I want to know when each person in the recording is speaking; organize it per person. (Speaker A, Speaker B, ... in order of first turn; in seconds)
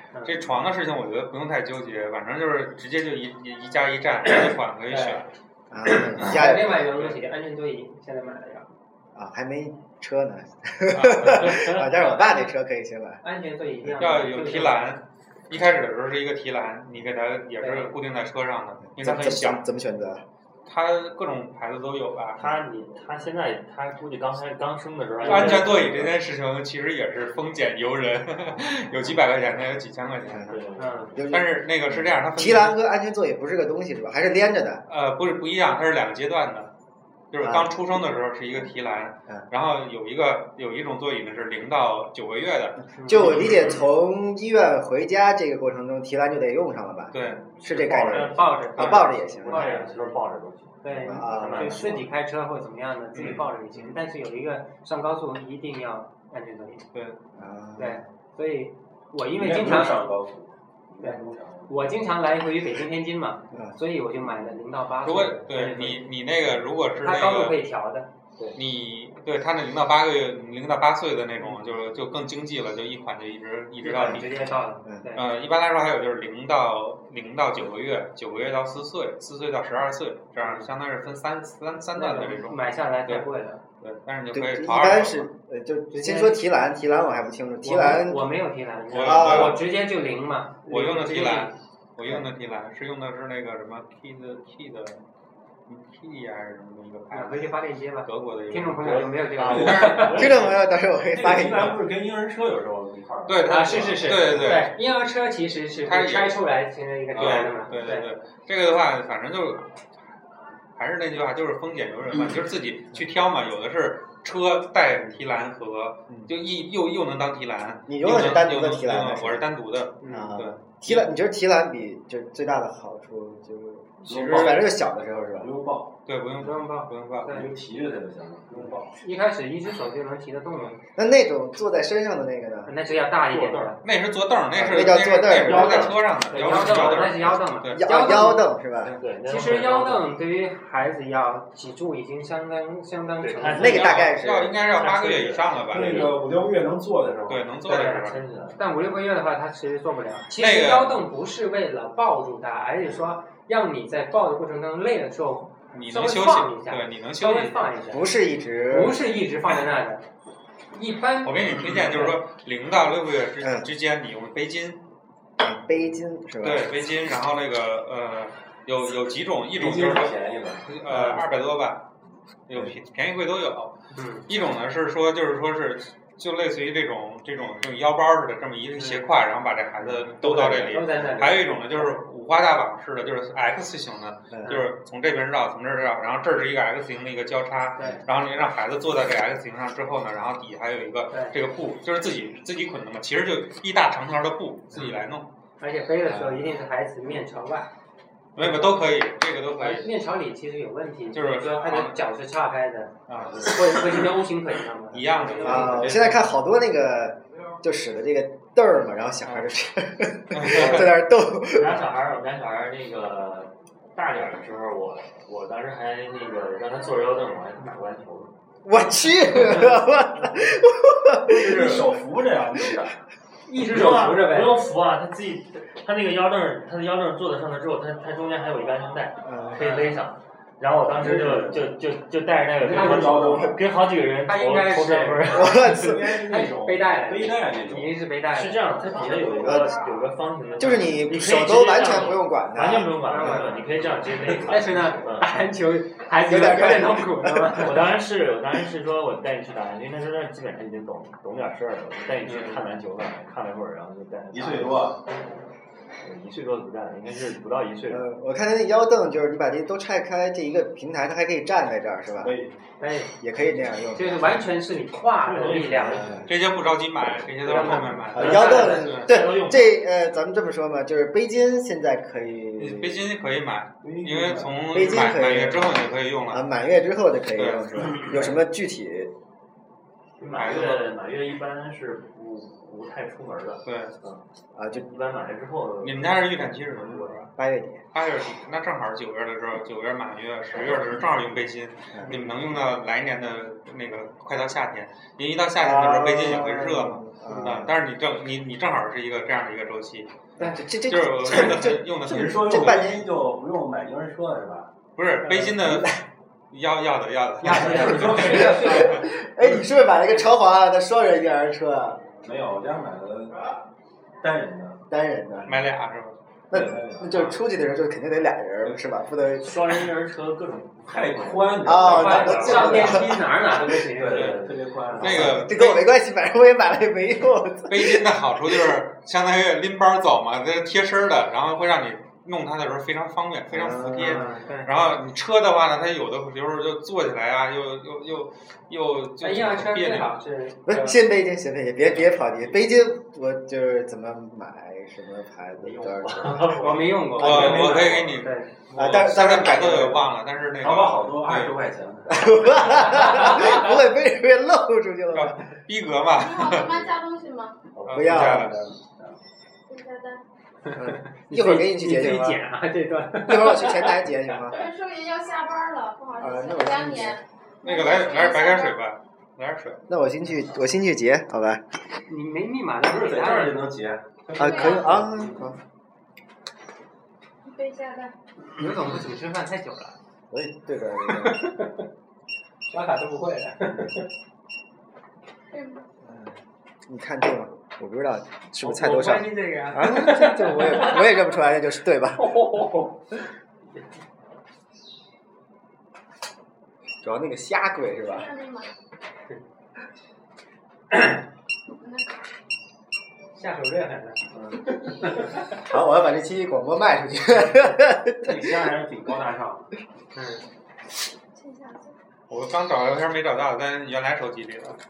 Speaker A: 0.1-0.6, 4.9-5.2, 6.1-8.7, 13.2-14.9, 17.6-17.9, 22.4-23.0, 30.8-31.1, 43.0-43.4, 48.0-50.2, 50.8-56.8, 57.8-60.1, 61.0-66.1, 67.0-68.5, 73.8-75.2, 80.4-80.7, 82.0-83.6, 85.9-86.4, 87.6-91.5, 97.1-100.3, 103.4-108.1, 120.0-120.3, 126.4-127.5, 129.0-130.8, 132.7-133.8, 136.3-138.5, 139.2-144.1, 145.8-146.1, 147.7-158.1, 158.7-160.0, 160.7-162.2, 170.9-171.3, 173.9-174.2, 178.8-179.0, 180.2-182.0, 187.8-188.0, 195.6-197.7, 198.3-198.9, 199.6-206.2, 223.5-224.6, 229.6-230.0, 232.7-233.5, 234.2-235.6, 236.2-239.4, 243.1-243.6, 244.4-247.8, 262.8-263.1, 263.9-266.2, 267.4-268.4, 307.4-309.0, 321.9-324.5, 334.0-334.8, 339.2-340.9, 346.5-348.5, 352.9-353.6, 361.3-364.3, 372.1-373.7, 378.5-380.0, 381.1-381.8, 382.7-384.1, 388.6-391.2, 392.1-392.9, 403.3-404.2, 410.1-410.4
Speaker B: 0.2-5.3, 6.9-7.2, 10.9-11.6, 14.0-19.6, 20.6-22.5, 25.2-30.6, 31.3-32.8, 34.9-36.7, 37.3-43.9, 47.1-47.5, 53.1-54.0, 56.9-57.2, 65.0-67.6, 68.5-74.3, 75.1-83.3, 83.8-85.3, 88.9-89.6, 90.7-95.0, 95.7-99.7, 103.3-104.7, 105.8-106.4, 107.1-109.7, 110.7-121.1, 124.0-124.7, 126.0-127.3, 133.8-137.9, 143.6-146.1, 147.3-148.2, 150.3-151.0, 155.7-157.6, 161.2-164.8, 166.4-171.9, 172.5-195.3, 198.3-199.9, 201.1-202.0, 203.1-203.5, 204.9-206.3, 210.3-211.0, 266.3-269.1, 272.6-276.5, 277.3-278.0, 280.3-280.9, 283.6-283.9, 285.8-287.3, 287.9-300.1, 300.8-303.0, 304.9-309.1, 315.4-316.2, 324.9-325.9, 327.7-340.1, 347.1-351.5, 355.1-356.8, 357.8-358.6, 367.6-369.8, 412.3-414.8
Speaker C: 5.7-7.0, 9.1-13.2, 19.0-20.2, 30.3-30.6, 31.1-34.8, 37.4-37.7, 43.0-49.7, 51.0-52.0, 57.3-58.0, 73.9-74.2, 74.8-75.1, 84.3-88.2, 88.9-89.6, 99.9-101.8, 117.9-119.5, 120.0-125.5, 130.9-132.7, 134.5-136.0, 137.2-139.0, 143.5-144.6, 157.9-159.1, 163.4-163.7, 165.4-166.7, 180.9-181.2, 184.3-184.6, 196.0-196.6, 205.4-211.8, 218.6-221.9, 229.2-229.6, 235.3-236.2, 239.4-239.8, 240.6-243.5, 246.2-247.7, 257.9-262.4, 263.2-264.5, 265.8-266.3, 268.1-273.1, 274.7-279.1, 284.5-284.9, 287.4-287.8, 291.9-292.2, 295.6-297.8, 300.4-303.0, 305.2-306.0, 308.3-312.1, 314.9-315.6, 316.5-319.7, 321.6-323.1, 325.0-328.0, 333.5-334.4, 340.6-347.9, 348.7-350.1, 352.1-355.5, 357.9-358.7, 360.7-362.4, 363.2-364.6, 366.2-367.2, 369.9-371.6, 374.4-375.6, 380.3-381.5, 386.0-392.5, 397.0-398.3, 405.5-408.5
Speaker D: 11.1-11.9, 22.4-26.1, 30.5-31.2, 47.2-52.1, 98.8-100.6, 133.2-133.8, 134.7-137.0, 139.0-140.1, 143.2-145.9, 147.7-148.6, 211.5-218.3, 223.6-235.7, 238.3-245.4, 247.6-254.9, 256.0-258.1, 265.2-266.3, 267.6-269.8, 280.2-287.1, 319.4-323.1, 345.6-347.2, 358.1-358.4
Speaker E: 59.3-61.9, 99.5-100.4, 101.0-104.3, 124.0-124.7, 125.4-125.9, 127.3-129.0, 145.7-147.5, 169.5-170.8, 221.2-223.0, 223.6-224.4, 230.9-231.7, 232.6-233.6, 235.4-238.0, 254.3-255.0, 262.2-262.5, 268.2-268.6, 273.8-274.6, 302.0-304.7, 307.4-309.0, 312.2-313.5, 314.2-314.8, 316.5-317.3, 320.9-325.5, 347.2-348.1, 350.6-352.9, 357.9-359.2, 372.8-375.5, 404.4-405.3, 408.1-409.7
Speaker F: 356.1-357.6, 359.7-360.2, 364.5-368.8, 374.4-374.9, 377.4-378.1, 385.5-385.8, 398.1-398.7, 401.8-402.1, 411.3-411.9